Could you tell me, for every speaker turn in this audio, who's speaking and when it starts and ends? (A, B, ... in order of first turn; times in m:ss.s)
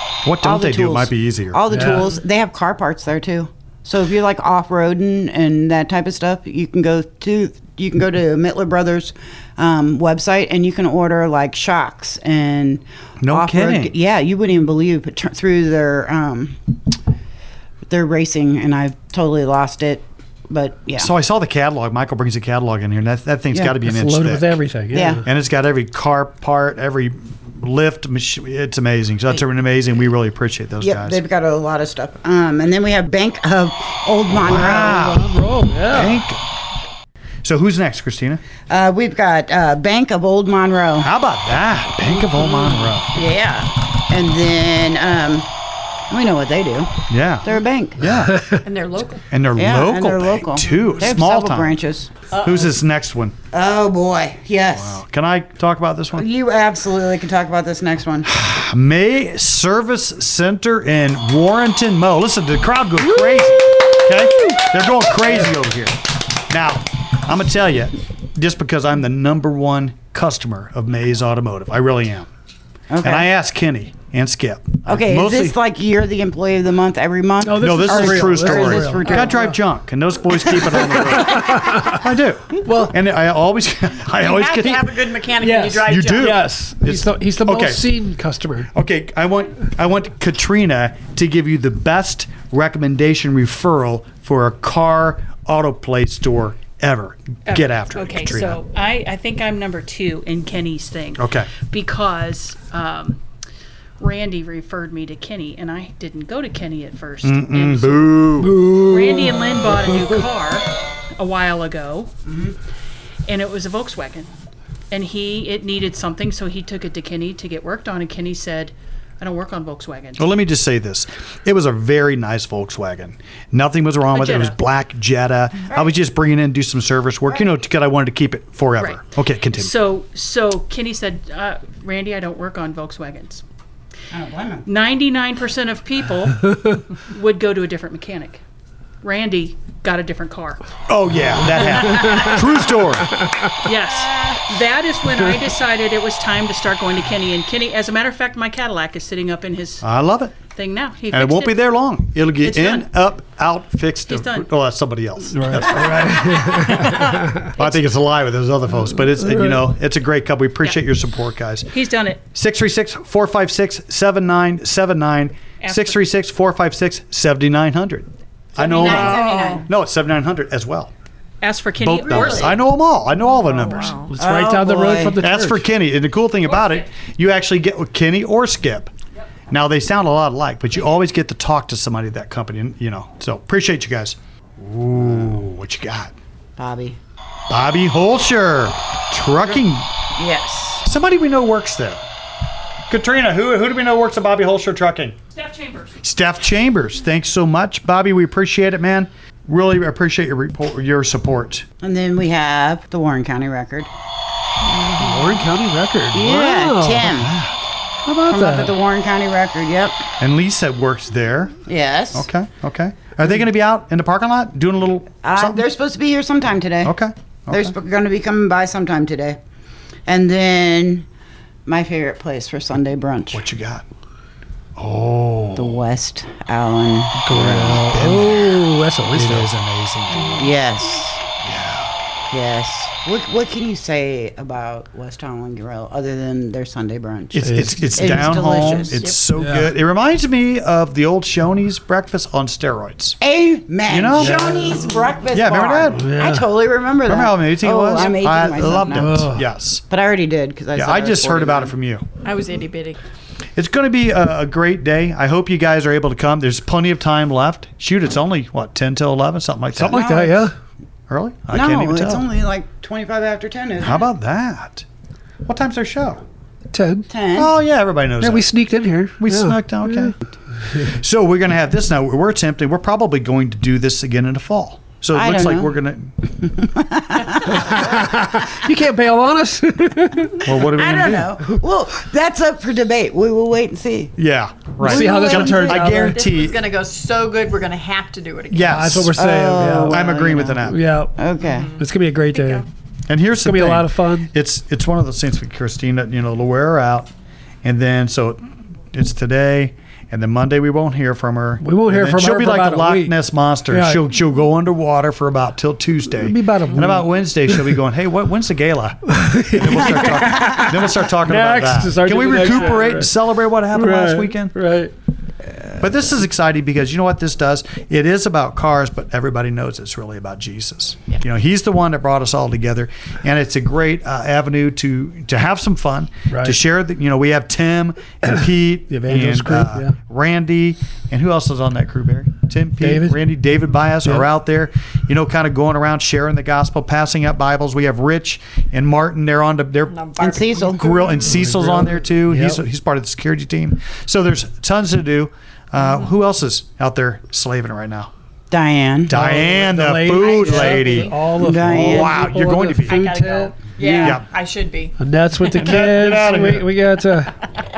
0:00.2-0:02.0 A
0:00.4-0:16.7 B
0:01.7-0:02.1 C
0:13.2-0:13.9 A
0:17.9-0:21.1 B
0:21.0-0:24.6 A
0:23.8-0:25.3 C
0:24.9-0:25.2 B
0:25.2-0:31.2 A
0:30.8-0:35.1 B
0:34.4-0:35.4 A
0:34.5-0:36.2 C
0:35.9-0:36.4 A
0:37.4-0:38.4 A
0:38.7-0:41.1 B
0:41.0-0:43.2 A
0:43.1-0:45.5 B
0:46.1-0:48.0 B
0:47.1-0:48.6 A
0:48.3-0:48.6 C
0:48.6-0:49.3 D
0:49.3-0:51.8 A
0:49.6-0:52.1 B
0:52.3-0:52.7 D
0:52.3-0:53.4 A
0:53.5-0:55.0 B
0:54.7-0:56.3 A
0:56.1-0:58.3 B
0:58.3-1:12.3 A
1:12.9-1:13.3 B
1:13.0-1:15.6 A
1:14.8-1:19.5 B
1:17.4-1:19.5 C
1:17.6-1:25.0 A
1:21.2-1:22.0 C
1:22.6-1:22.9 C
1:24.2-1:26.4 D
1:25.4-1:28.7 C
1:25.8-1:27.9 A
1:28.7-1:38.6 A
1:37.5-1:43.2 E
1:41.2-1:41.5 A
1:44.0-1:52.1 E
1:47.2-1:48.6 A
1:48.4-1:50.2 C
1:53.3-1:54.3 E
1:54.9-2:00.3 E
2:00.2-2:09.7 A
2:04.1-2:04.6 E
2:08.8-2:13.4 E
2:14.1-2:14.7 B
2:14.6-2:18.4 E
2:19.0-2:20.6 E
2:20.9-2:23.2 A
2:21.6-2:22.3 C
2:21.9-2:22.3 E
2:23.2-2:23.5 C
2:23.6-2:29.8 E
2:29.8-2:30.4 A
2:30.5-2:31.8 E
2:31.1-2:50.9 A
2:32.5-2:32.8 E
2:34.1-2:34.5 E
2:35.3-2:37.5 C
2:37.6-2:37.9 E
2:39.2-2:39.7 C
2:41.7-2:42.2 E
2:45.6-2:46.0 E
2:48.6-2:49.7 B
2:48.6-2:49.7 D
2:51.4-2:52.6 E
2:51.8-2:54.1 A
2:52.0-2:52.6 B
2:53.3-2:54.1 D
2:54.1-2:55.7 C
2:54.2-2:55.2 B
2:55.2-2:58.9 A
2:59.5-3:06.1 A
3:06.6-3:07.0 B
3:07.5-3:09.9 A
3:10.2-3:10.9 B
3:10.8-3:12.0 A
3:12.9-3:15.2 A
3:15.3-3:16.0 E
3:16.0-3:21.6 A
3:21.8-3:23.9 B
3:24.9-3:27.1 C
3:26.1-3:27.3 B
3:27.1-3:27.6 A
3:28.1-3:28.8 C
3:28.3-3:30.0 B
3:30.2-3:31.6 A
3:31.7-3:32.3 B
3:32.1-3:35.6 A
3:35.2-3:37.0 B
3:36.8-3:37.7 A
3:37.5-3:39.4 B
3:40.1-3:41.1 B
3:41.7-3:43.4 B
3:43.3-3:43.8 A
3:44.8-3:45.8 A
3:45.6-3:47.2 B
3:47.2-3:50.5 A
3:47.3-3:49.5 C
3:50.1-3:50.5 D
3:50.4-3:51.2 B
3:51.4-3:51.9 A
3:52.3-3:59.0 B
3:57.3-4:03.2 A
3:57.4-3:58.5 C
3:58.6-3:59.2 D
3:59.4-3:59.7 C
4:03.2-4:09.3 B
4:03.9-4:04.8 A
4:04.2-4:05.0 C
4:05.3-4:06.1 A
4:06.0-4:06.5 C
4:07.1-4:09.8 A
4:08.9-4:09.5 C
4:09.9-4:11.8 B
4:10.7-4:12.1 A
4:12.2-4:13.0 D
4:13.6-4:20.0 A
4:19.8-4:20.5 C
4:19.8-4:20.5 B
4:21.1-4:22.3 A
4:21.5-4:24.0 B
4:23.8-4:24.8 A
4:25.4-4:26.2 A
4:26.7-4:27.1 C
4:27.1-4:27.5 B
4:27.4-4:28.5 A
4:28.2-4:30.1 C
4:29.2-4:30.2 A
4:30.8-4:36.3 A
4:35.1-4:35.8 B
4:36.4-4:37.8 B
4:37.4-4:40.5 C
4:40.4-4:41.4 A
4:40.5-4:44.2 B
4:44.2-4:46.7 A
4:44.8-4:46.0 B
4:44.8-4:46.3 C
4:45.9-4:49.0 D
4:48.5-4:49.2 A
4:48.6-4:50.1 C
4:49.1-4:51.7 B
4:49.9-4:50.8 A
4:50.7-4:51.2 C
4:51.4-4:52.7 D
4:51.8-4:52.6 C
4:53.1-4:57.1 A
4:53.4-4:54.3 C
4:57.6-5:14.6 A
5:01.6-5:03.2 C
5:03.7-5:04.0 C
5:06.1-5:07.7 C
5:09.1-5:13.1 C
5:13.7-5:14.9 C
5:15.8-5:40.0 A
5:26.3-5:26.6 C
5:28.3-5:30.0 C
5:32.8-5:33.2 C
5:39.9-5:41.3 D
5:40.2-5:40.9 B
5:40.7-5:48.1 A
5:41.3-5:42.6 C
5:48.5-5:49.2 B
5:49.1-5:51.1 A
5:49.1-5:53.6 C
5:50.2-5:51.1 D
5:51.4-5:52.2 B
5:51.7-5:53.1 A
5:52.9-5:55.0 D
5:53.8-5:54.2 B
5:55.0-5:57.3 C
5:55.6-5:56.7 A